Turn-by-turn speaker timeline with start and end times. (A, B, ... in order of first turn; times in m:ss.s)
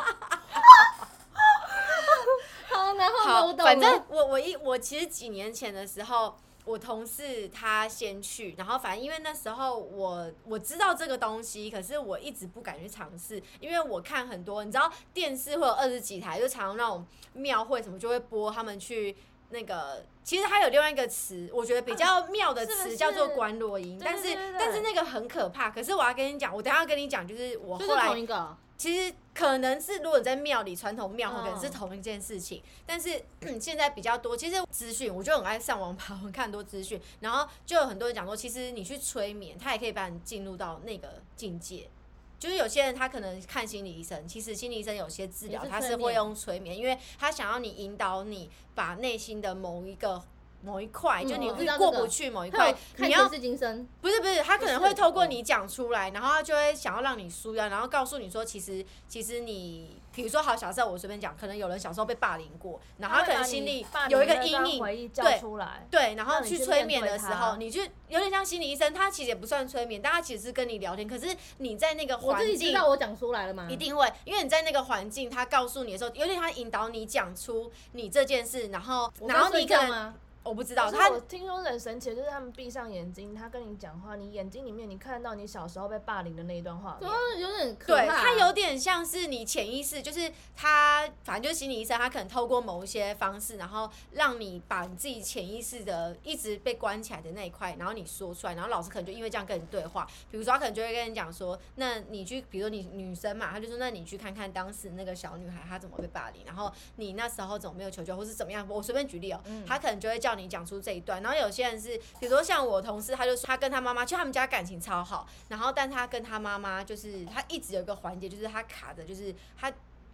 0:01.9-0:04.0 A
0:03.2-0:28.2 B
0:22.7-0:22.9 A
0:22.8-0:23.4 C
0:24.0-0:24.8 C
0:27.8-0:28.6 A
0:28.8-0:53.3 B
0:31.2-0:31.8 A
0:45.5-0:46.3 A
0:51.2-0:53.9 A
0:51.3-0:51.7 C
0:54.0-1:12.8 B
0:54.6-0:55.3 A
1:03.0-1:07.6 C
1:12.2-1:13.8 A
1:13.7-1:21.2 B
1:19.2-1:20.2 A
1:20.8-1:27.3 C
1:27.0-1:28.5 A
1:27.8-1:59.8 B
1:49.4-1:49.7 A